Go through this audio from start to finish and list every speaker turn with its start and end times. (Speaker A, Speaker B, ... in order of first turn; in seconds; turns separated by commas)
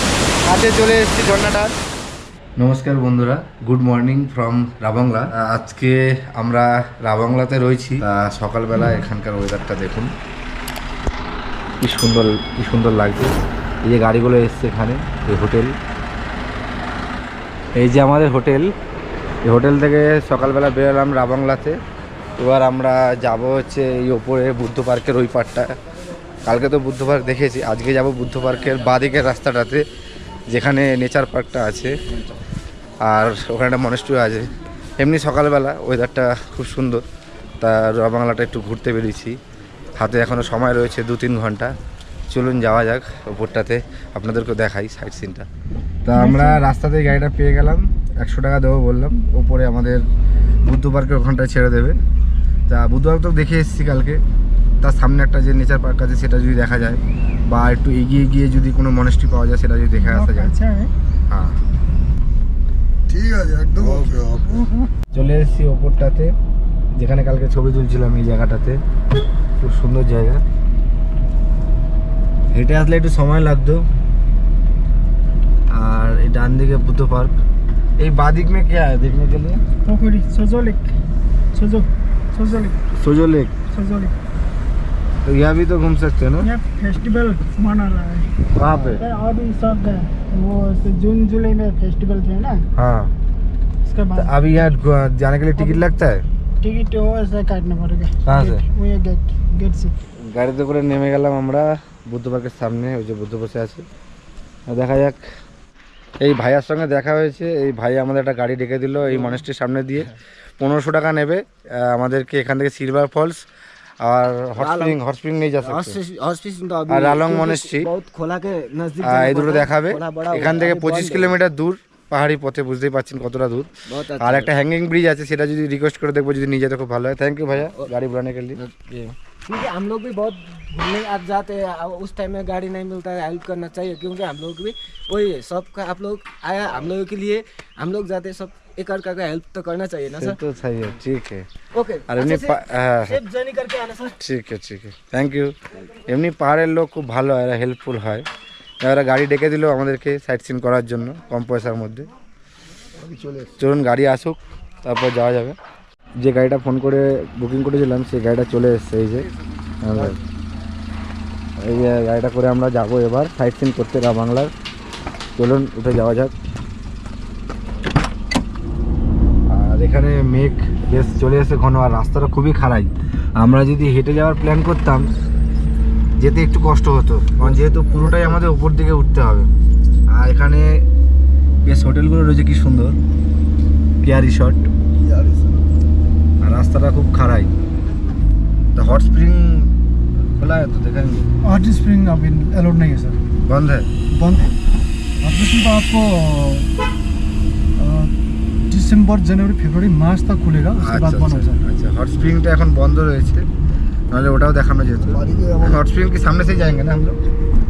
Speaker A: 0.4-1.7, Speaker A: 2.6-10.1, Speaker A: 11.8-15.7, Speaker A: 17.8-18.7, Speaker A: 19.4-21.8, Speaker A: 22.4-25.7, Speaker A: 26.4-29.8, Speaker A: 30.5-31.9, Speaker A: 33.0-37.0, Speaker A: 37.6-39.3, Speaker A: 40.0-41.7, Speaker A: 42.3-45.4, Speaker A: 46.0-50.0, Speaker B: 46.1-46.6, Speaker A: 50.6-52.0, Speaker A: 52.7-54.2, Speaker A: 54.8-60.5, Speaker B: 59.9-60.9, Speaker A: 61.3-61.6, Speaker B: 63.4-64.8, Speaker A: 65.1-66.3, Speaker A: 66.9-68.8, Speaker A: 69.6-70.4, Speaker A: 72.5-73.8, Speaker A: 75.7-77.4, Speaker A: 78.0-79.6, Speaker B: 79.8-80.8, Speaker B: 81.5-82.8, Speaker A: 82.8-83.5, Speaker B: 83.7-84.1, Speaker A: 85.2-86.5, Speaker B: 86.9-88.3, Speaker A: 88.5-89.0, Speaker B: 89.4-92.5, Speaker A: 92.8-93.1, Speaker A: 94.1-96.2, Speaker B: 96.7-98.1, Speaker A: 98.2-98.7, Speaker B: 98.8-99.9, Speaker A: 100.2-103.8, Speaker A: 104.7-105.2, Speaker A: 106.2-113.4, Speaker A: 114.0-116.0, Speaker C: 114.6-115.0, Speaker C: 115.6-121.3, Speaker A: 116.9-117.9, Speaker A: 119.0-128.6, Speaker C: 123.9-124.5, Speaker C: 128.5-140.4, Speaker A: 140.1-141.5, Speaker C: 141.7-144.1, Speaker A: 142.1-143.2, Speaker A: 144.2-145.5, Speaker A: 146.1-148.2, Speaker A: 148.8-152.1, Speaker A: 153.6-155.6, Speaker A: 156.2-159.3, Speaker A: 159.8-160.2, Speaker A: 161.6-164.5, Speaker A: 165.3-166.3, Speaker A: 169.5-175.1, Speaker A: 176.2-179.5, Speaker A: 180.1-180.8, Speaker A: 181.6-182.9, Speaker A: 184.0-184.7, Speaker A: 186.4-187.5, Speaker A: 188.7-189.7, Speaker A: 190.3-191.3, Speaker B: 191.4-193.2, Speaker A: 193.4-193.9, Speaker B: 194.1-194.6, Speaker B: 195.2-196.7, Speaker B: 197.8-198.1, Speaker B: 198.7-201.6, Speaker A: 200.8-203.4, Speaker A: 204.1-207.2